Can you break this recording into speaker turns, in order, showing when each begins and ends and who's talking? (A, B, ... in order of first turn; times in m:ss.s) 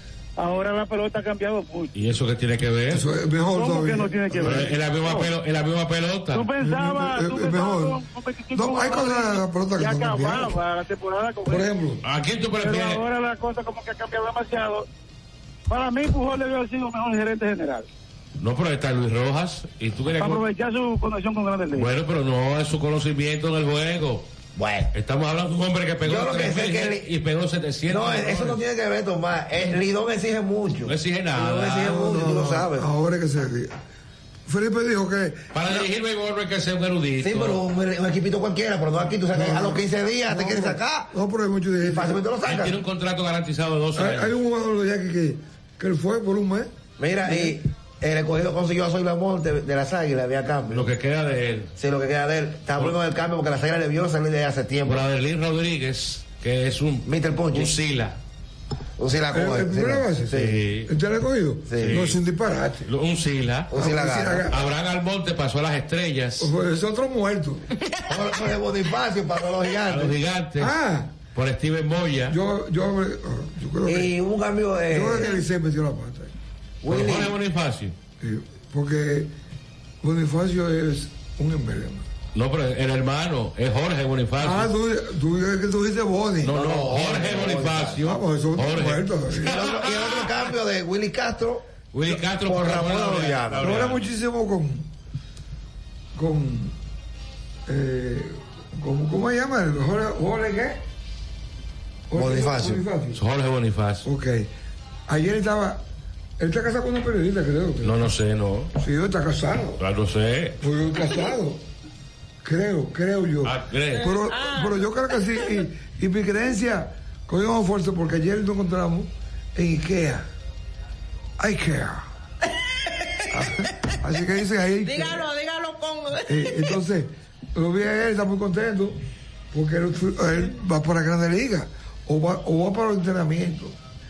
0:00.4-0:01.9 A
0:01.9-0:03.0 B
0:02.9-0:04.7 C
0:03.5-0:05.3 A
0:04.4-0:06.5 B
0:06.3-0:11.7 A
0:06.6-0:10.6 C
0:11.5-0:12.0 C
0:12.0-0:13.0 B
0:12.6-0:14.9 A
0:15.7-0:17.9 A
0:18.4-0:20.4 B
0:20.2-0:21.9 A
0:21.7-0:24.3 B
0:24.6-0:24.9 D
0:24.9-0:28.6 B
0:26.0-0:27.1 D
0:27.9-0:32.9 D
0:30.9-0:32.0 B
0:31.8-0:33.8 C
0:34.5-0:35.8 C
0:35.5-0:37.6 B
0:37.2-0:41.1 D
0:39.3-0:42.2 C
0:41.8-0:42.8 D
0:42.4-0:44.4 B
0:44.0-0:46.7 C
0:47.0-0:50.9 D
0:47.2-0:47.6 C
0:50.7-0:51.7 B
0:51.8-0:55.1 D
0:54.8-0:58.2 B
0:57.0-0:57.8 D
0:59.0-1:00.6 D
0:59.3-1:02.9 C
1:00.3-1:00.9 B
1:01.7-1:02.0 D
1:01.8-1:02.2 B
1:02.8-1:03.7 B
1:03.7-1:04.5 D
1:03.7-1:04.6 C
1:04.5-1:06.5 B
1:06.4-1:07.7 C
1:08.1-1:10.2 D
1:09.9-1:10.7 B
1:10.6-1:11.1 C
1:11.3-1:12.4 B
1:12.3-1:14.1 C
1:13.9-1:15.4 D
1:14.9-1:16.3 C
1:16.8-1:17.4 D
1:16.9-1:18.0 B
1:18.2-1:19.3 C
1:20.0-1:22.1 C
1:22.3-1:24.7 B
1:24.4-1:27.1 C
1:26.4-1:30.3 B
1:26.5-1:28.0 D
1:28.0-1:29.6 C
1:29.4-1:33.8 D
1:31.9-1:34.1 B
1:33.6-1:34.9 C
1:36.2-1:36.8 C
1:37.7-1:40.8 C
1:42.1-1:43.2 C
1:42.1-1:42.8 D
1:43.2-1:44.1 B
1:44.0-1:44.5 C
1:45.1-1:45.8 C
1:46.4-1:48.0 C
1:47.8-1:48.7 B
1:48.8-1:49.8 C
1:49.8-1:50.6 B
1:50.6-1:51.6 C
1:52.4-2:00.3 C
1:53.4-1:54.1 B
1:54.0-1:55.6 E
2:01.4-2:02.0 C
2:03.3-2:05.3 C
2:04.8-2:06.8 E
2:06.3-2:09.0 C
2:09.5-2:13.8 C